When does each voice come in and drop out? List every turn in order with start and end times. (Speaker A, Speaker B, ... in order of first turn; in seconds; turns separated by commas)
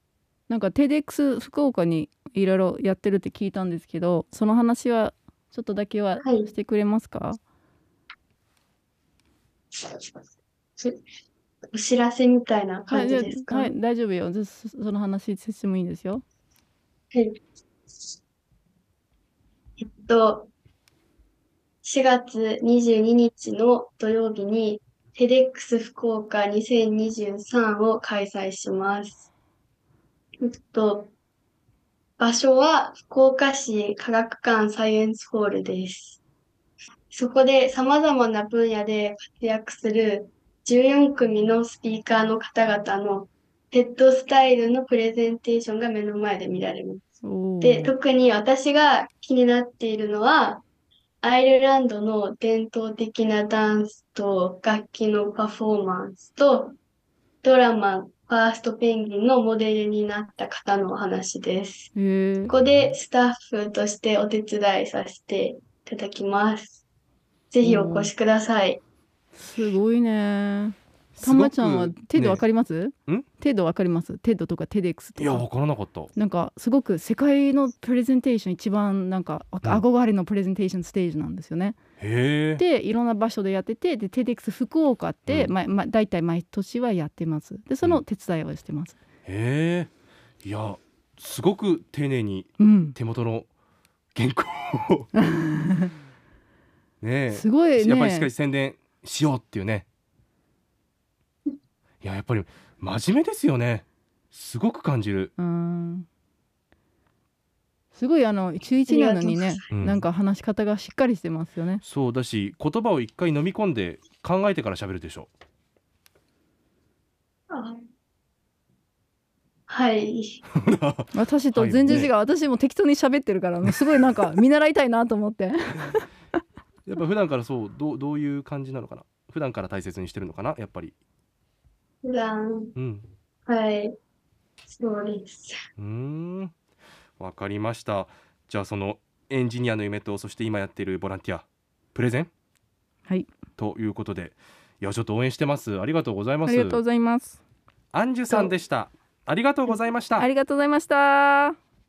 Speaker A: 0.5-7.4, Speaker B: 6.2-6.5, Speaker B: 9.8-10.1, Speaker B: 11.7-13.7, Speaker A: 12.9-16.2, Speaker B: 17.1-17.4, Speaker B: 19.8-20.5, Speaker B: 21.8-29.3, Speaker B: 30.4-31.1, Speaker B: 32.2-36.2, Speaker B: 37.1-47.0, Speaker A: 47.2-48.0, Speaker B: 47.6-50.6, Speaker B: 51.2-56.8, Speaker B: 57.4-61.9, Speaker A: 62.0-62.5, Speaker B: 62.5-66.8, Speaker C: 62.6-62.9, Speaker B: 67.5-68.8, Speaker A: 67.6-68.1, Speaker A: 69.4-75.5, Speaker C: 71.2-72.4, Speaker C: 75.2-76.1, Speaker A: 76.2-81.8, Speaker C: 82.0-82.6, Speaker A: 82.6-89.0, Speaker C: 85.3-85.5, Speaker C: 89.2-89.9, Speaker C: 90.4-93.5, Speaker A: 92.6-93.0, Speaker C: 94.2-95.1, Speaker A: 95.2-95.9, Speaker C: 97.0-99.9, Speaker A: 97.3-98.3, Speaker C: 102.0-105.3, Speaker A: 105.4-106.1, Speaker A: 107.9-111.8, Speaker B: 108.9-109.7, Speaker C: 109.7-110.0, Speaker C: 111.8-115.3, Speaker B: 117.5-117.8, Speaker B: 119.7-120.4, Speaker C: 120.7-122.1, Speaker A: 121.1-126.1, Speaker C: 126.9-130.9, Speaker B: 132.0-132.7, Speaker C: 132.8-133.1, Speaker B: 133.5-134.0, Speaker B: 134.7-135.6, Speaker C: 135.8-136.5, Speaker C: 137.2-142.3, Speaker A: 143.1-143.3, Speaker C: 143.6-146.8, Speaker A: 146.4-147.4, Speaker C: 147.9-150.3, Speaker A: 150.2-151.6